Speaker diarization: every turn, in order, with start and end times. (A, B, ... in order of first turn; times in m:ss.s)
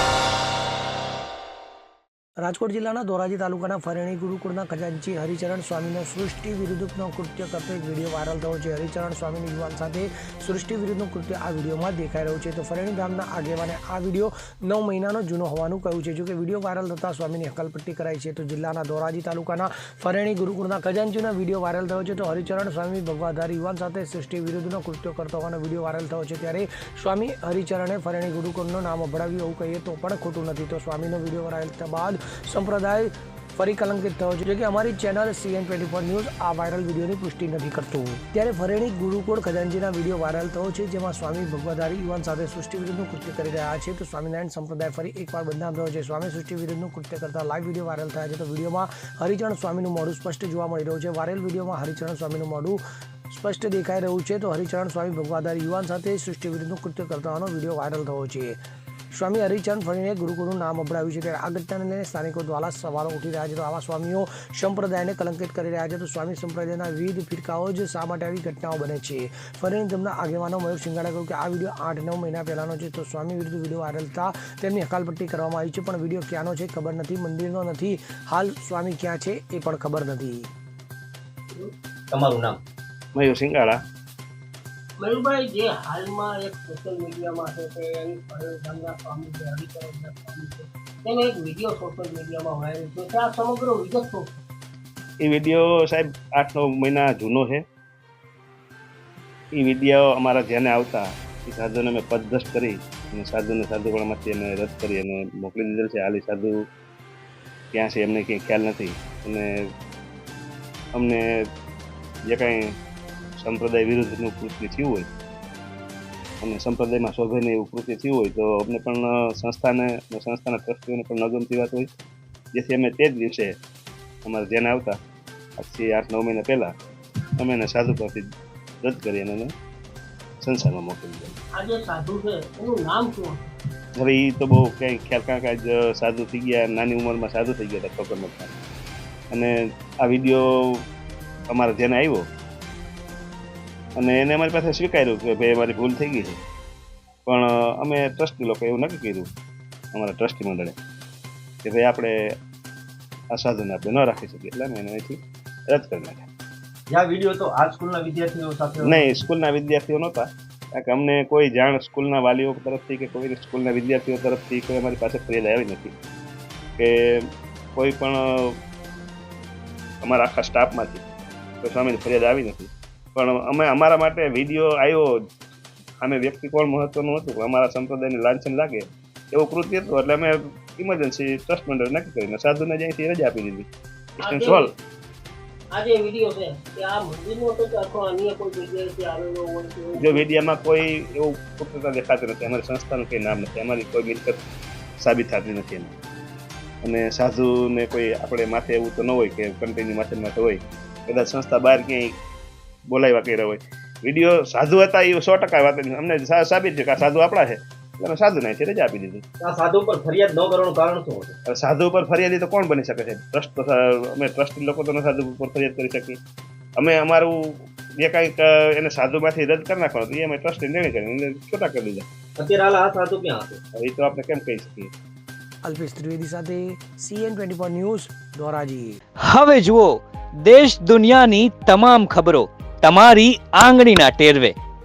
0:02.4-0:58.6 A
0:59.1-1:20.5 A
1:22.1-1:22.6 B
1:23.1-1:23.8 C
1:25.0-1:34.3 D
1:35.2-1:37.6 C
1:39.5-1:46.6 C
1:47.7-1:49.5 C
1:51.0-1:51.2 C
1:52.3-1:52.7 C
1:53.4-1:55.1 C
1:56.4-2:01.9 C
2:02.5-2:03.6 C
2:04.2-2:05.0 C
2:05.6-2:06.7 C
2:07.4-2:08.2 C
2:08.8-2:09.5 C
2:10.4-2:11.3 C
2:11.6-2:13.5 D
2:14.0-2:18.5 C
2:19.3-2:20.8 C
2:21.5-2:22.3 C
2:24.0-2:26.4 C
2:27.3-2:29.3 C
2:29.9-2:30.8 C
2:31.6-2:32.2 C
2:33.3-2:36.3 C
2:36.9-2:39.2 B
2:38.8-2:45.9 C
2:46.8-2:48.6 C
2:50.0-2:51.0 C
2:51.6-2:55.1 C
2:56.0-3:03.7 C
3:04.2-3:04.7 C
3:04.2-3:04.8 D
3:05.7-3:10.3 D
3:10.0-3:14.4 C
3:15.0-3:15.9 C
3:16.8-3:22.2 C
3:22.9-3:29.2 C
3:29.4-3:31.4 B
3:31.5-3:36.2 C
3:36.8-3:42.0 C
3:42.4-3:43.6 B
3:43.8-3:44.9 C
3:45.6-3:49.0 A
3:49.2-3:54.6 E